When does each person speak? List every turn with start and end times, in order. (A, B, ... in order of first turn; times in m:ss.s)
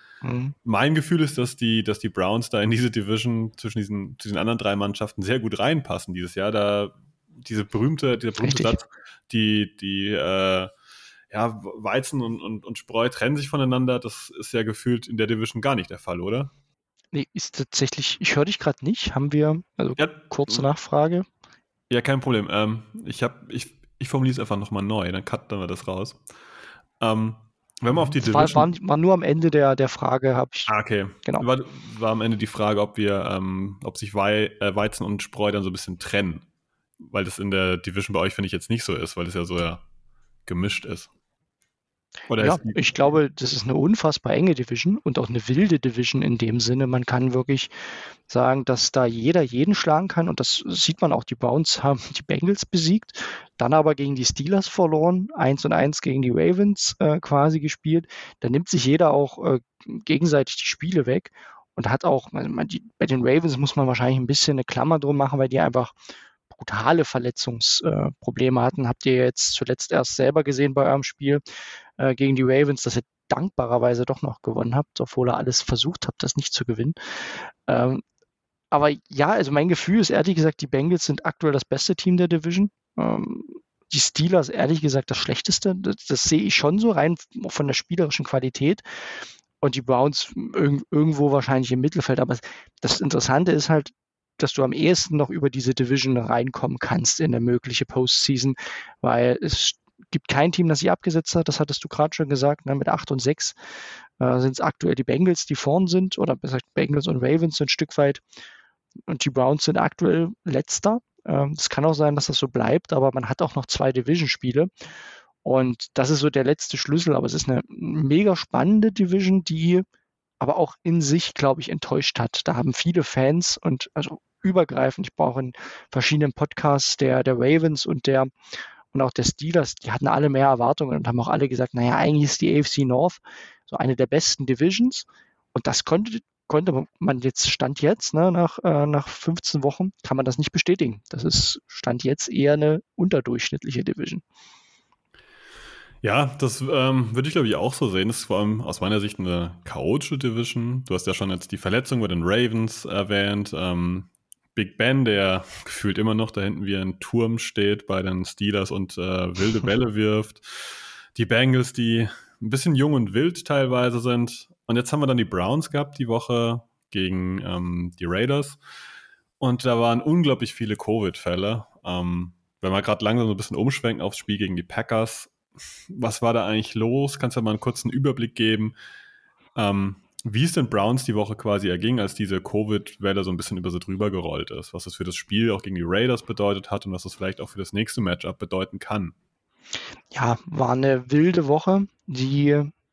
0:00.2-0:00.6 A
0:00.6-0:10.7 B
0:08.4-0:08.8 A
0:11.3-0:16.5 B
0:17.1-0:21.3 A
0:20.0-0:20.6 B
0:21.9-0:26.2 B
0:27.0-0:28.7 B
0:28.2-0:30.7 A
0:30.7-0:36.4 B
0:37.0-0:39.8 B
0:40.5-0:41.1 B
0:42.3-0:42.8 B
0:42.4-0:47.7 A
0:48.3-1:05.9 A
1:06.5-1:11.4 A
1:12.0-1:17.0 A
1:17.7-1:18.0 A
1:18.7-1:28.8 A
1:29.6-1:43.6 A
1:44.2-1:48.2 A
1:49.1-1:54.7 A
1:55.4-1:59.8 A
2:00.4-2:08.3 A
2:08.9-2:24.2 A
2:26.0-2:48.6 B
2:49.4-2:55.3 B
2:55.9-2:58.8 B
2:59.6-3:09.1 B
3:10.1-3:12.7 A